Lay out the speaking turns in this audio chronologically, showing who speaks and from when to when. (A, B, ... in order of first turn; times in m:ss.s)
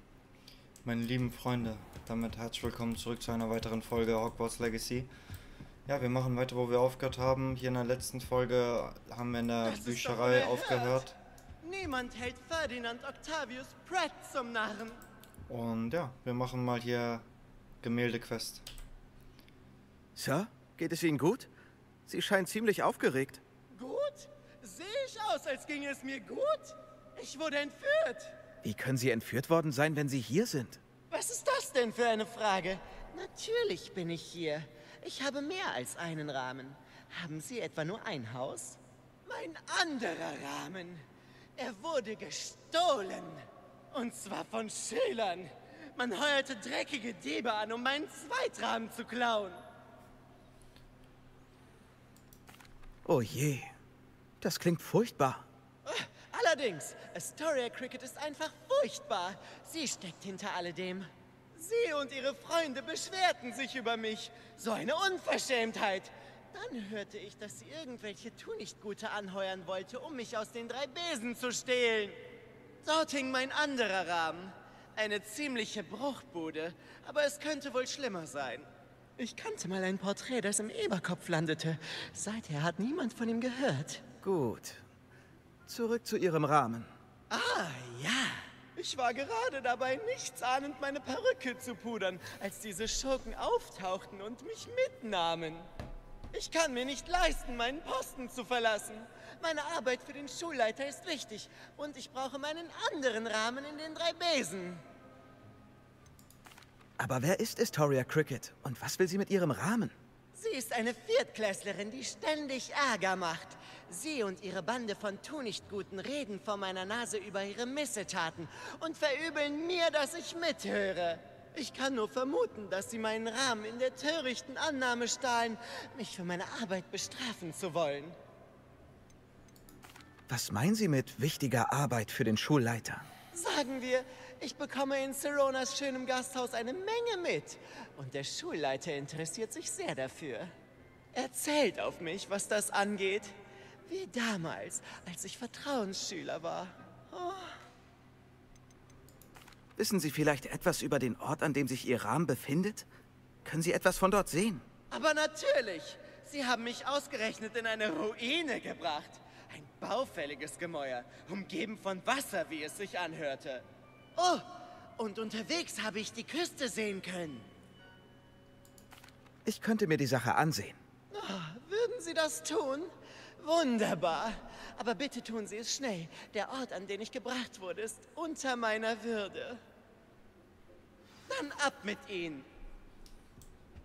0:00.8-0:05.1 A
0:05.9-0:11.2 A
0:09.6-0:11.0 B
0:11.6-0:15.0 B
0:15.5-0:17.3 A
0:17.8-0:18.7 A
0:20.2-0:21.5 C
0:22.1-0:23.4 C
0:23.7-0:28.4 B
0:28.6-0:30.8 C
0:31.1-0:41.0 B
0:41.6-0:49.6 B
0:53.0-0:53.7 C
0:54.4-0:55.5 C
0:55.9-1:12.2 B
1:12.8-1:24.0 B
1:24.2-1:24.8 C
1:25.7-1:26.9 C
1:27.3-1:35.7 B
1:36.3-1:44.8 B
1:47.0-1:50.0 C
1:50.4-2:08.2 B
2:10.3-2:13.1 C
2:13.3-2:20.5 B
2:21.1-2:27.6 B
2:29.8-2:32.9 C
2:33.4-2:34.7 C
2:34.9-2:47.5 B
2:49.5-2:50.8 C
2:51.1-2:59.6 B
3:01.3-3:02.5 B